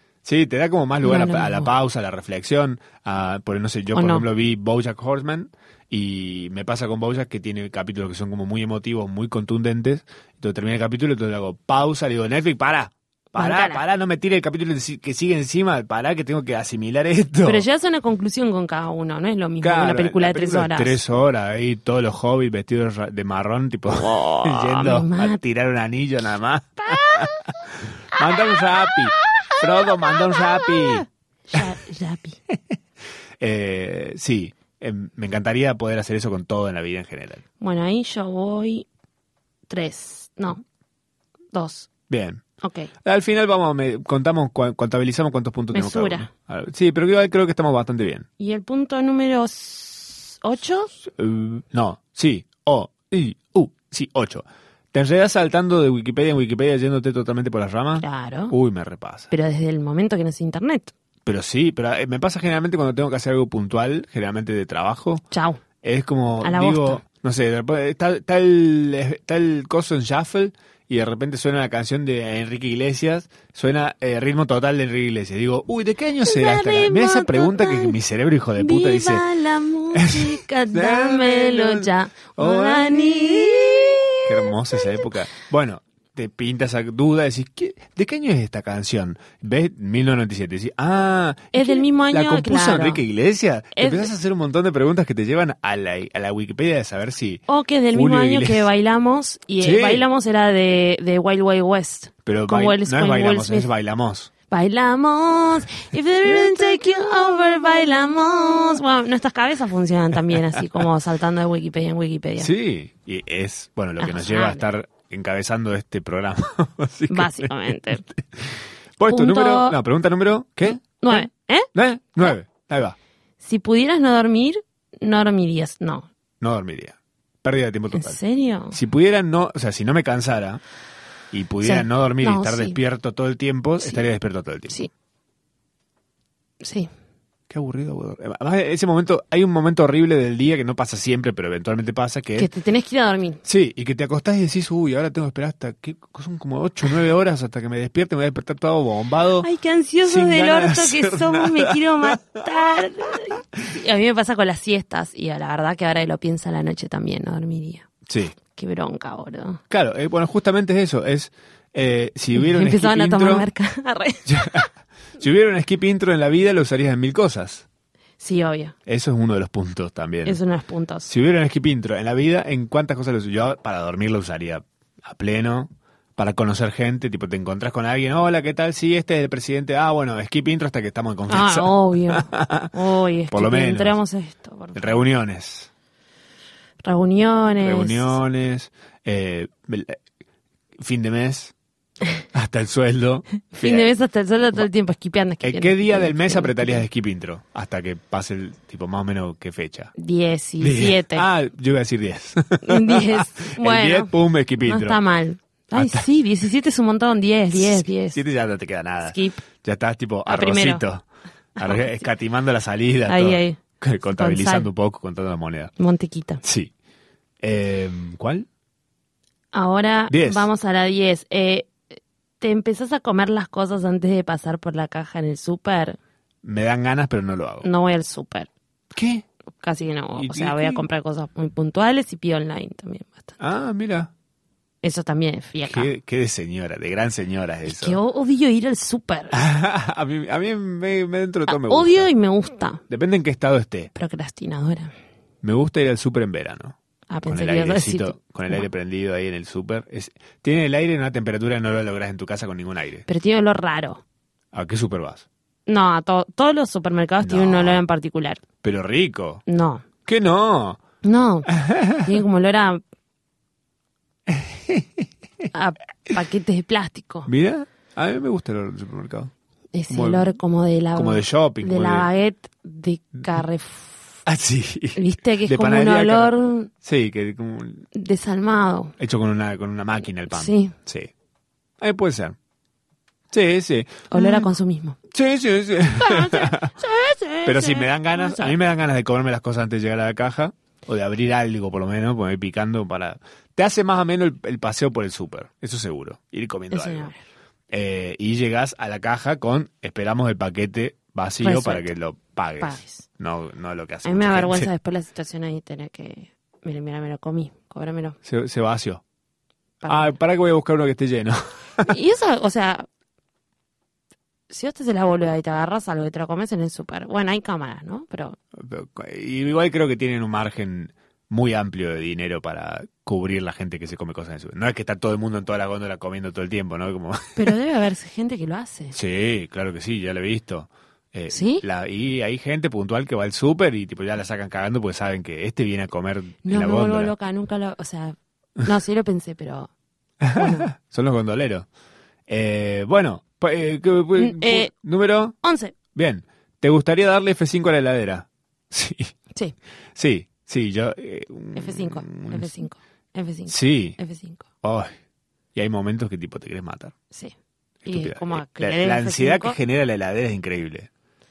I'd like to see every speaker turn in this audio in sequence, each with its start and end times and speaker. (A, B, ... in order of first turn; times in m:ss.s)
0:00.2-0:17.6 A
0:01.0-0:01.7 B
0:03.9-0:04.2 B
0:13.4-0:13.8 B
0:17.4-0:21.0 B
0:19.6-0:31.6 A
0:23.9-0:25.4 B
0:26.9-0:27.3 B
0:28.2-0:32.4 B
0:32.5-0:32.8 A
0:33.4-0:37.4 A
0:37.6-0:38.8 B
0:39.7-0:40.6 B
0:41.5-0:41.9 B
0:42.1-0:42.4 A
0:42.6-0:42.9 B
0:43.0-0:48.3 A
0:45.7-0:46.3 B
0:48.4-0:50.9 B
0:51.0-0:59.3 A
0:58.0-0:58.5 B
0:59.3-1:00.9 B
1:01.2-1:05.2 A
1:05.3-1:05.6 B
1:05.8-1:19.2 A
1:06.4-1:07.0 B
1:16.2-1:18.0 B
1:18.6-1:25.0 B
1:19.9-1:38.7 A
1:31.5-1:33.0 B
1:33.8-1:34.1 B
1:37.5-1:43.7 B
1:39.6-1:40.0 A
1:42.2-1:44.3 A
1:44.5-1:52.5 B
1:52.4-2:03.0 A
1:54.0-1:54.6 B
1:57.1-1:58.0 B
1:59.1-1:59.8 B
2:00.8-2:01.7 B
2:03.4-2:06.1 B
2:06.4-2:08.2 A
2:07.9-2:08.8 B
2:08.7-2:10.6 A
2:11.3-2:14.8 A
2:11.6-2:12.8 B
2:16.6-2:16.9 B
2:17.5-2:22.5 A
2:22.4-2:23.4 B
2:23.4-2:29.5 A
2:29.4-2:37.9 B
2:30.0-2:32.9 A
2:38.1-2:38.3 A
2:38.5-2:39.6 B
2:39.7-2:43.5 A
2:42.3-2:44.7 B
2:44.3-2:44.7 A
2:45.2-2:47.6 A
2:48.2-2:48.7 B
2:48.9-2:50.4 A
2:50.2-2:51.1 B
2:51.1-3:02.7 A
3:01.3-3:05.0 B
3:03.3-3:04.0 A
3:04.7-3:05.7 A
3:06.8-3:08.2 B
3:07.6-3:10.0 A
3:10.8-3:11.5 A
3:12.3-3:13.9 A
3:13.5-3:16.8 B
3:15.4-3:19.9 A
3:20.0-3:21.2 B
3:20.6-3:25.0 A
3:22.6-3:24.1 B
3:24.6-3:28.2 B
3:25.7-3:26.1 A
3:27.5-3:31.0 A
3:29.0-3:29.4 B
3:30.2-3:30.8 B
3:31.6-3:35.7 A
3:31.6-3:31.9 B
3:33.0-3:33.6 B
3:34.1-3:34.7 B
3:35.8-3:36.4 B
3:36.4-3:36.7 A
3:37.4-3:38.5 A
3:39.5-3:41.8 B
3:40.1-3:40.5 A
3:42.4-3:46.0 B
3:46.4-3:47.7 A
3:47.6-3:48.5 B
3:48.9-3:49.2 A
3:49.6-3:53.4 B
3:50.2-3:50.8 A
3:53.4-3:54.1 A
3:54.8-3:55.9 B
3:55.6-3:58.0 A
3:57.7-3:59.4 B
3:59.3-4:02.1 A
4:01.5-4:02.8 B
4:02.9-4:03.9 A
4:03.9-4:04.9 B
4:05.4-4:06.8 A
4:07.1-4:08.6 B
4:07.3-4:13.0 A
4:13.0-4:14.0 B
4:14.5-4:15.2 A
4:15.7-4:18.4 B
4:17.2-4:17.8 A
4:18.6-4:19.4 A
4:19.5-4:19.8 B
4:20.0-4:20.8 A
4:21.0-4:22.8 B
4:21.5-4:22.2 A
4:24.3-4:25.5 A
4:25.5-4:27.3 B
4:27.3-4:29.3 A
4:29.7-4:34.0 B
4:29.9-4:30.4 A
4:30.9-4:32.1 A
4:34.2-4:37.9 A
4:34.9-4:36.7 B
4:37.9-4:38.9 B
4:39.0-4:41.1 A
4:40.3-4:40.7 B
4:41.8-4:42.4 A
4:43.3-4:44.5 A
4:44.1-4:45.0 B
4:45.1-4:46.7 A
4:46.0-4:48.6 B
4:47.4-4:57.1 A
4:56.7-4:57.2 B
4:57.7-5:04.7 A
5:01.4-5:01.9 B
5:02.6-5:03.0 B
5:04.0-5:08.2 B
5:08.2-5:09.0 A
5:09.8-5:10.1 B
5:09.9-5:11.9 A
5:11.8-5:12.9 B
5:14.5-5:18.4 B
5:18.6-5:27.5 A
5:27.4-5:29.0 B
5:28.9-5:37.1 A
5:31.3-5:31.6 B
5:36.4-5:39.7 B
5:40.2-5:41.7 A
5:40.3-5:40.7 B
5:42.3-5:45.4 A
5:44.2-5:44.7 B
5:45.4-5:45.7 B
5:45.9-5:49.1 A
5:49.9-5:52.5 A
5:51.6-5:54.4 B
5:53.5-5:54.0 A
5:54.6-5:54.9 A
5:55.5-5:56.9 A
5:57.8-6:00.9 A
5:57.8-5:59.6 B